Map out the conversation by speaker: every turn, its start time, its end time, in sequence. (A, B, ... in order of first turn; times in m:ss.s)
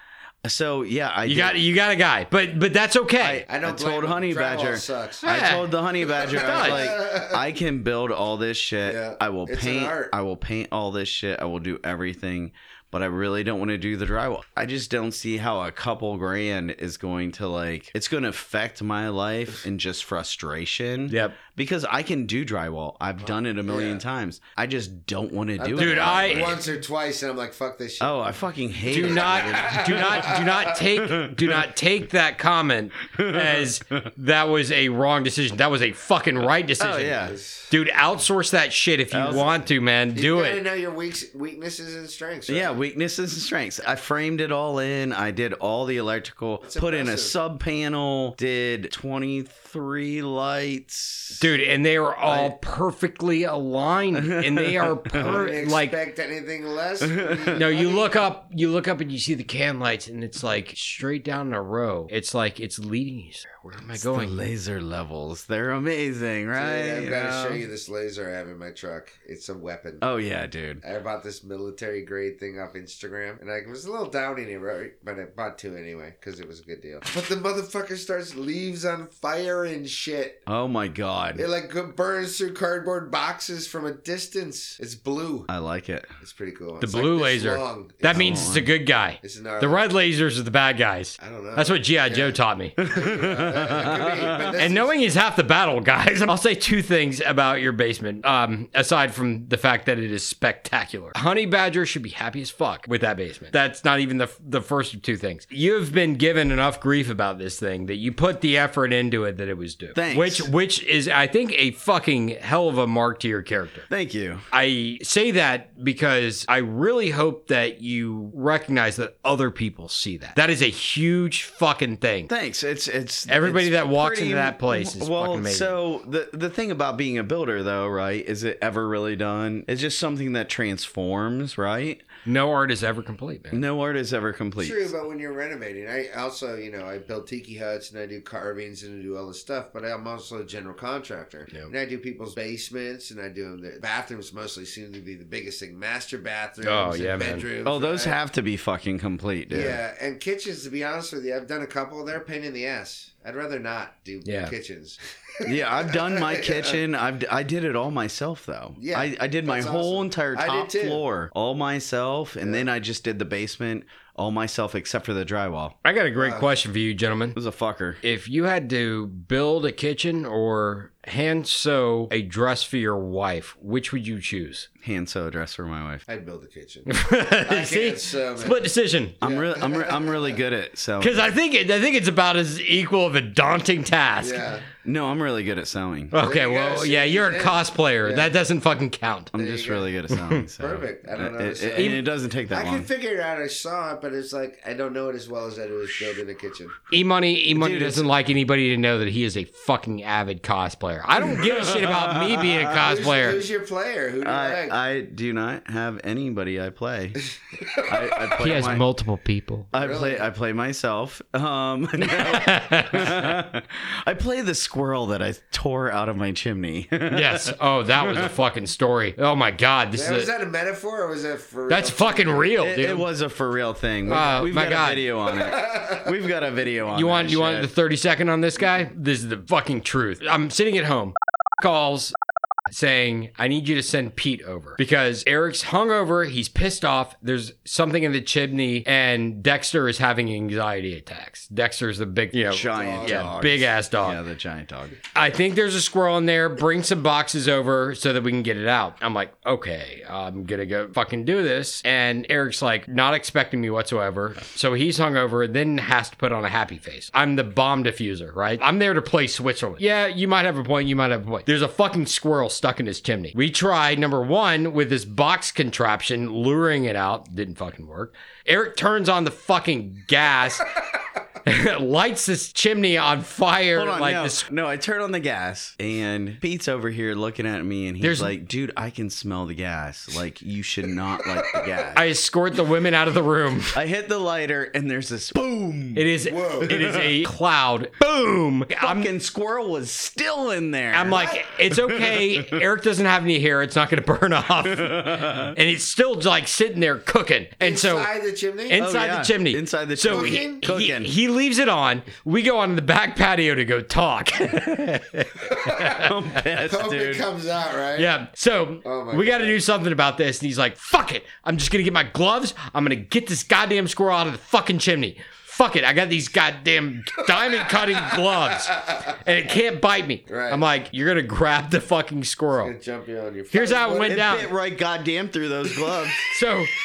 0:00.4-0:01.6 A
0:01.2-0:03.4 B
0:03.2-0:26.6 A
0:03.5-0:05.2 C
0:05.2-0:06.9 B
0:06.2-0:07.4 C
0:08.8-0:10.1 C
0:21.1-0:21.4 B
0:23.2-0:24.0 C
0:25.6-0:30.7 C
0:25.8-0:26.6 B
0:28.0-0:30.4 A
0:28.9-0:40.6 B
0:31.0-0:31.6 A
0:33.1-0:34.1 A
0:36.8-0:37.4 A
0:37.1-0:37.7 C
0:39.1-0:39.5 A
0:40.1-0:42.8 C
0:42.5-0:51.4 A
0:46.6-0:47.4 C
0:51.4-0:55.9 B
0:52.3-0:52.5 C
0:54.1-0:55.3 A
0:55.1-0:58.2 C
0:57.0-0:57.6 A
0:57.5-1:04.4 B
1:03.9-1:07.6 A
1:06.5-1:10.0 C
1:10.0-1:10.8 A
1:10.8-1:20.4 C
1:20.5-1:21.4 A
1:21.3-1:25.5 C
1:25.5-1:26.1 A
1:26.2-1:28.5 C
1:26.8-1:32.7 B
1:28.1-1:28.7 A
1:29.2-1:29.8 C
1:31.2-1:35.0 C
1:32.8-1:34.5 A
1:34.6-1:53.8 B
1:49.9-1:50.5 A
1:53.9-1:54.4 A
1:54.5-2:02.3 B
2:02.3-2:12.0 A
2:03.3-2:05.8 B
2:12.2-2:13.6 B
2:13.5-2:14.9 A
2:14.6-2:28.2 C
2:26.6-2:27.4 B
2:27.6-2:29.8 A
2:29.5-2:36.8 C
2:34.2-2:34.5 B
2:35.4-2:45.8 A
2:38.8-2:41.0 C
2:42.4-2:42.7 C
2:45.8-2:47.4 B
2:46.2-2:46.5 C
2:47.4-2:48.0 A
2:48.0-2:54.7 B
2:54.8-2:56.0 A
2:56.1-2:56.9 C
2:56.9-2:59.2 B
2:57.4-2:58.6 C
2:59.2-3:00.4 C
2:59.2-3:01.3 A
3:01.0-3:04.4 B
3:04.2-3:04.6 C
3:04.8-3:06.1 A
3:06.1-3:09.3 B
3:06.2-3:08.3 C
3:09.3-3:12.9 A
3:09.3-3:09.9 C
3:10.1-3:10.4 B
3:10.6-3:16.7 C
3:11.8-3:12.0 B
3:16.9-3:23.4 B
3:17.6-3:18.0 A
3:21.2-3:22.7 A
3:22.7-3:24.8 C
3:24.2-3:27.2 A
3:27.5-3:28.6 C
3:27.8-3:28.8 A
3:28.4-3:29.7 B
3:29.7-3:38.3 A
3:29.7-3:30.2 C
3:32.2-3:33.3 B
3:37.1-3:40.3 B
3:39.9-3:42.5 C
3:41.7-3:43.0 B
3:42.6-3:47.7 A
3:44.1-3:45.1 B
3:45.3-3:46.1 C
3:46.9-3:52.1 B
3:52.7-4:04.2 B
4:02.5-4:05.0 A
4:02.7-4:03.3 C
4:05.1-4:30.7 B
4:31.4-4:34.4 B
4:33.7-4:42.0 A
4:38.0-4:38.3 B
4:41.9-4:43.8 B
4:43.7-4:46.1 A
4:45.9-4:49.1 B
4:46.2-4:46.8 C
4:46.6-4:47.1 A
4:48.8-4:52.6 A
4:50.9-4:58.1 B
4:54.7-4:55.5 A
4:57.6-4:58.8 C
4:58.7-5:06.2 B
4:58.8-5:01.1 A
5:00.0-5:00.6 C
5:05.6-5:05.8 C
5:05.9-5:07.2 A
5:06.6-5:08.1 C
5:08.0-5:22.7 B
5:08.8-5:09.6 C
5:17.3-5:19.1 C
5:20.3-5:20.6 C
5:22.6-5:24.2 C
5:23.5-5:24.5 B
5:24.1-5:26.3 A
5:26.3-5:26.7 B